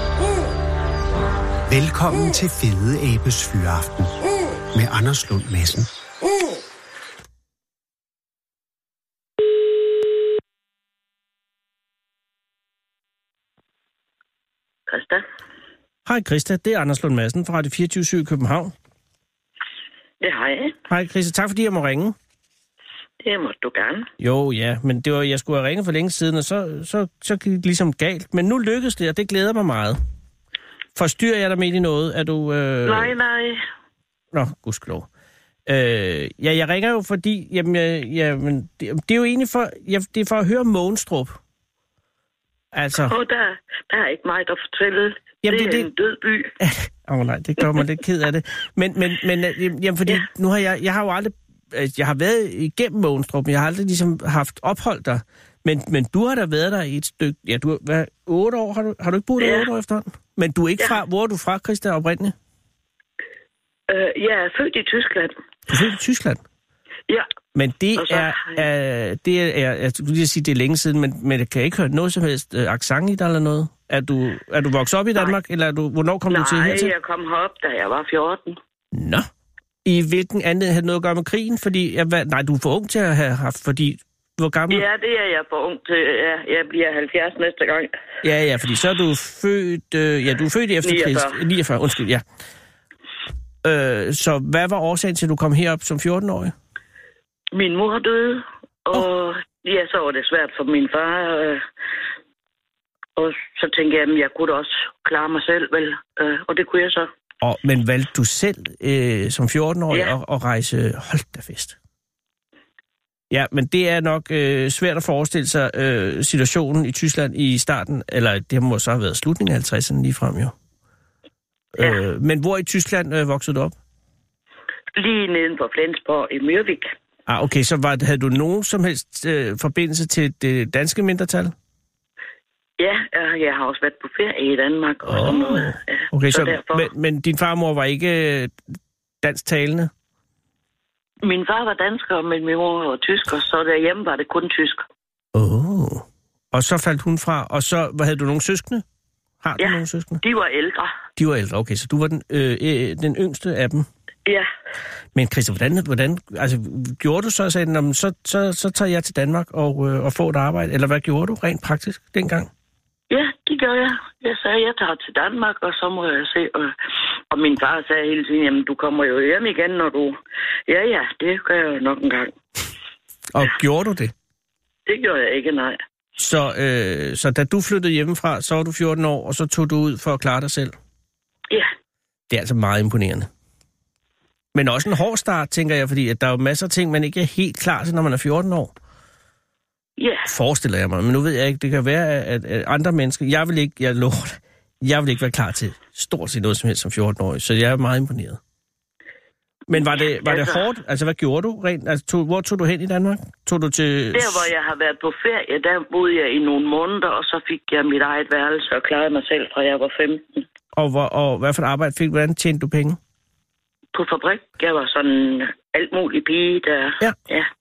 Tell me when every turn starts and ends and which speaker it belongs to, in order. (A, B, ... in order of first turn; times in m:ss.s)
0:01.7-0:05.9 A
0:14.9-0:15.2 B
0:16.0-0:18.7 C
0:20.2-0:20.8 B
0:20.9-0:22.1 C
0:23.2-0:24.1 B
0:24.2-0:30.0 C
0:31.0-0:33.1 C
0:32.8-0:33.6 B
0:34.3-0:35.1 C
0:35.6-0:41.4 C
0:42.7-0:43.1 C
0:43.1-0:46.5 B
0:45.4-0:45.9 C
0:46.6-1:02.3 C
0:59.4-0:59.7 B
1:03.9-1:05.3 B
1:05.7-1:06.4 C
1:07.5-1:16.9 C
1:08.0-1:08.6 B
1:16.3-1:18.6 B
1:18.9-1:19.3 C
1:19.8-1:24.8 C
1:24.7-1:27.9 B
1:28.2-1:32.2 C
1:30.8-1:31.4 B
1:33.6-1:36.5 C
1:37.5-1:41.6 B
1:43.2-1:47.1 B
1:47.4-1:51.8 C
1:53.3-2:00.5 C
2:01.7-2:03.7 C
2:05.0-2:06.9 B
2:07.3-2:11.5 C
2:12.8-2:16.9 B
2:15.0-2:18.5 C
2:19.2-2:19.9 C
2:21.2-2:24.8 B
2:25.3-2:28.8 C
2:29.4-2:30.2 C
2:29.6-2:30.9 B
2:31.2-2:33.9 C
2:35.1-2:42.5 C
2:43.1-2:46.8 B
2:47.3-2:52.3 B
2:53.3-2:54.1 C
2:54.9-2:55.8 B
2:56.2-3:00.8 C
3:02.3-3:03.3 C
3:04.5-3:08.7 C
3:10.0-3:10.3 B
3:10.2-3:18.4 C
3:19.7-3:24.5 C
3:19.7-3:20.6 B
3:24.1-3:30.4 B
3:30.7-3:33.0 C
3:33.9-3:37.5 B